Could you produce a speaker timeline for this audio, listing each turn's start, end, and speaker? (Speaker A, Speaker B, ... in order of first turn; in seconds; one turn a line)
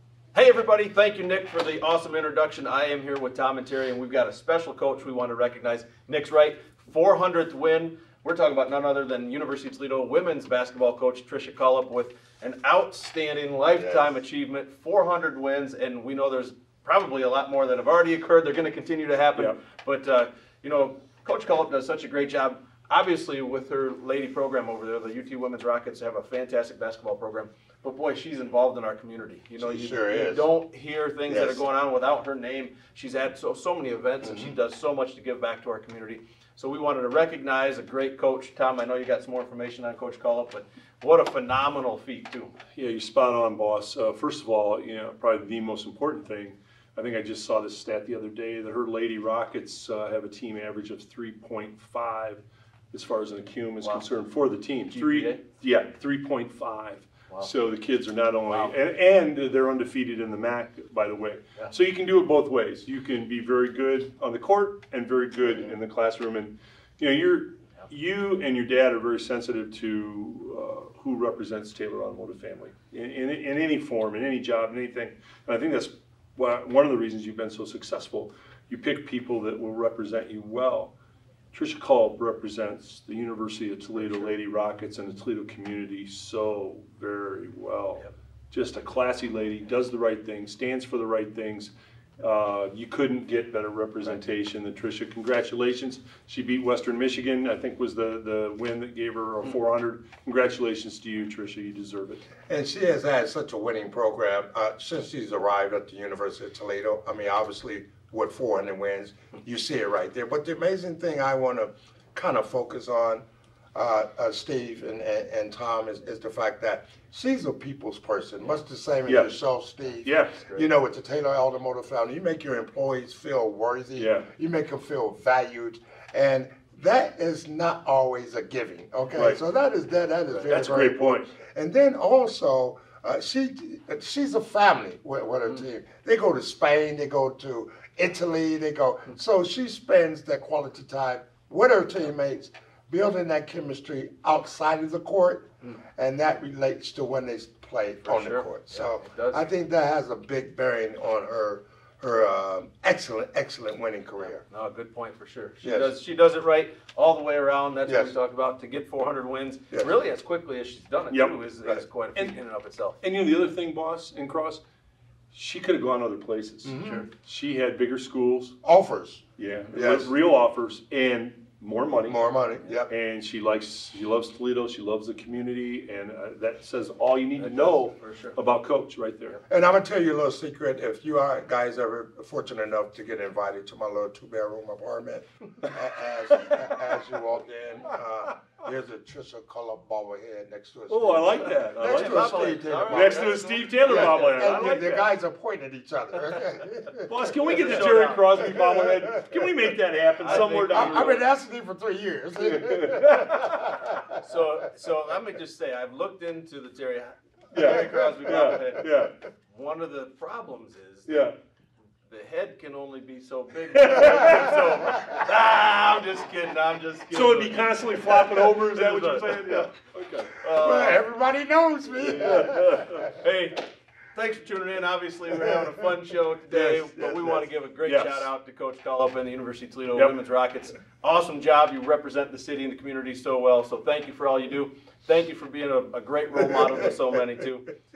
Speaker A: 0.3-42.5
Speaker B: 13.8-14.0
Speaker B: 29.6-30.5
Speaker B: 31.3-31.6
Speaker B: 34.2-34.5
Speaker C: 42.7-80.9
Speaker A: 53.8-54.0
Speaker A: 54.9-55.4
Speaker A: 58.5-58.7
Speaker C: 81.5-102.2
Speaker B: 102.5-154.4
Speaker C: 119.0-119.3
Speaker C: 120.0-120.5
Speaker C: 124.0-124.3
Speaker C: 129.1-129.4
Speaker C: 130.5-131.3
Speaker A: 148.0-149.5
Speaker A: 154.2-163.0
Speaker B: 155.6-155.9
Speaker B: 157.8-158.1
Speaker C: 161.1-161.4
Speaker C: 163.0-164.6
Speaker C: 165.3-168.5
Speaker B: 166.6-167.0
Speaker A: 166.8-167.0
Speaker B: 168.6-170.1
Speaker C: 169.4-172.2
Speaker B: 172.1-172.9
Speaker C: 172.9-179.4
Speaker A: 177.4-178.4
Speaker B: 179.5-193.3
Speaker C: 190.9-195.1
Speaker A: 191.8-194.8
Speaker B: 193.8-197.5
Speaker C: 197.0-201.2
Speaker A: 197.5-198.6
Speaker B: 198.6-199.3
Speaker A: 200.2-201.2
Speaker B: 200.3-203.6
Speaker C: 202.4-203.7
Speaker A: 204.2-211.3
Speaker C: 207.5-209.1
Speaker C: 211.1-211.3
Speaker A: 212.1-219.7
Speaker C: 213.8-214.2
Speaker C: 217.1-220.5
Speaker A: 220.3-221.0
Speaker B: 220.5-223.0
Speaker C: 222.0-223.1
Speaker A: 223.1-237.7
Speaker B: 226.5-227.5
Speaker C: 227.8-228.3